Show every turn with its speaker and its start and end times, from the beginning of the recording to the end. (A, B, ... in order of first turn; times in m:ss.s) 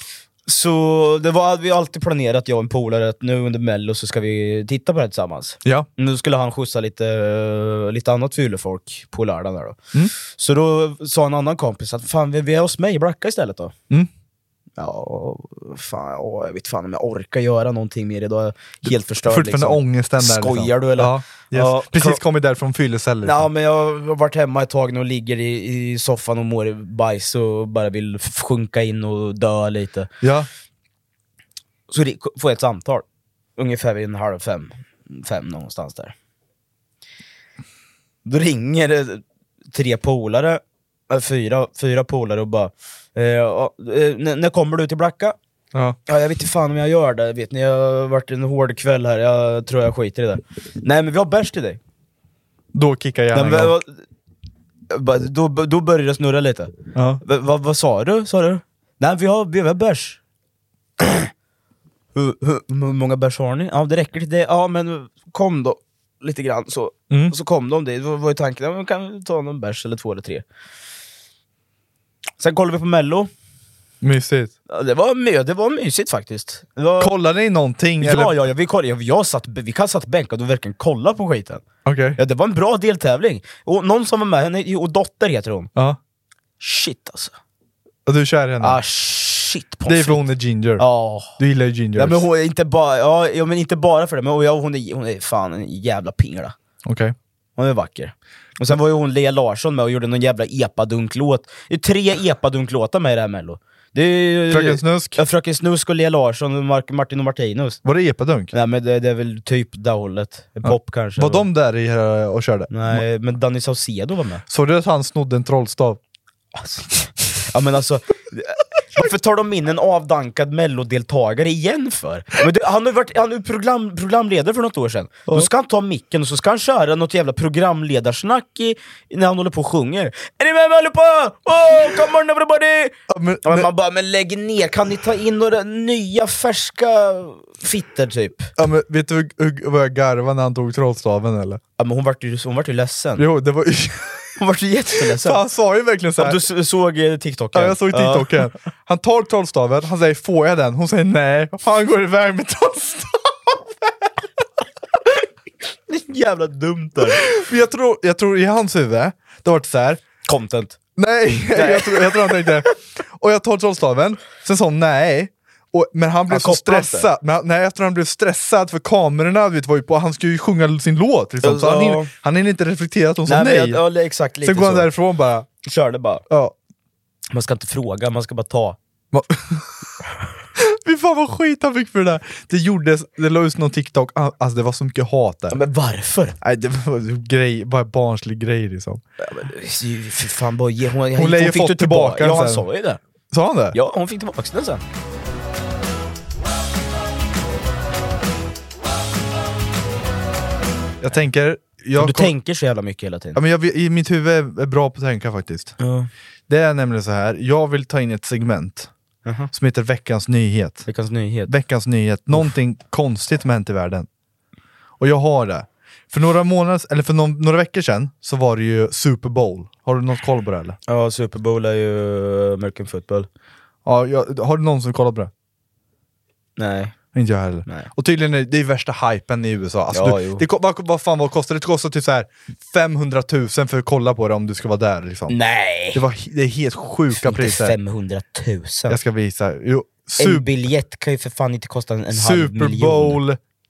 0:00.5-0:13.7 A
0:14.8-0:22.2 A
0:18.8-0:23.5 B
0:23.2-0:30.1 A
0:30.2-0:30.5 B
0:31.9-0:33.0 A
0:33.6-0:36.1 A
0:38.2-0:45.4 A
0:46.1-0:51.8 A
0:52.7-0:53.8 B
0:53.3-0:54.0 A
0:54.9-1:00.2 A
0:57.0-0:57.2 B
1:01.0-1:01.3 A
1:02.1-1:10.4 A
1:07.1-1:07.4 B
1:12.4-1:13.3 A
1:14.0-1:14.5 B
1:14.7-1:17.1 A
1:17.0-1:18.3 B
1:18.0-1:21.6 A
1:21.8-1:22.2 B
1:22.2-1:25.7 A
1:26.6-1:27.4 A
1:28.1-1:28.8 B
1:28.6-1:31.4 A
1:29.9-1:30.9 B
1:31.4-1:32.2 B
1:32.0-1:36.6 A
1:36.8-1:37.1 B
1:37.6-1:47.8 A
1:44.5-1:45.2 B
1:47.8-1:48.5 B
1:48.5-1:51.5 A
1:50.6-1:53.0 B
1:52.7-1:54.4 A
1:54.5-1:56.0 B
1:56.6-2:18.5 A
2:13.1-2:13.7 B
2:18.6-2:21.6 B
2:21.8-2:23.2 A
2:23.2-2:24.3 B
2:24.4-2:25.4 A
2:25.0-2:26.4 B
2:26.2-2:28.4 A
2:27.5-2:34.1 B
2:35.9-2:37.2 A
2:37.2-2:40.0 B
2:40.3-2:40.8 A
2:41.0-2:53.8 B
2:41.4-2:42.6 A
2:46.3-2:47.1 A
2:51.4-2:52.1 A
2:53.3-2:54.9 A
2:54.4-2:55.5 B
2:55.6-2:56.2 A
2:56.3-2:56.6 B
2:57.3-2:58.8 A
2:59.1-2:59.9 B
3:00.6-3:05.6 B
3:05.5-3:06.4 A
3:06.4-3:09.0 B
3:09.2-3:13.0 A
3:11.1-3:12.6 B
3:13.3-3:13.8 B
3:13.7-3:14.8 A
3:21.0-3:22.3 B
3:22.0-3:23.4 A
3:23.4-3:25.8 B
3:25.8-3:26.1 A
3:26.5-3:28.9 B
3:29.2-3:29.5 A
3:29.5-3:30.9 B
3:30.9-3:31.5 A
3:31.5-3:34.1 B
3:35.0-3:40.8 B
3:40.9-3:43.3 A
3:43.8-3:45.3 B
3:46.6-3:47.0 A
3:47.1-3:55.4 B
3:49.9-3:50.4 A
3:55.3-3:56.0 A
3:55.9-3:57.8 B
3:57.1-3:59.0 A
3:58.9-4:00.5 B
4:00.2-4:03.2 A
4:02.1-4:03.4 B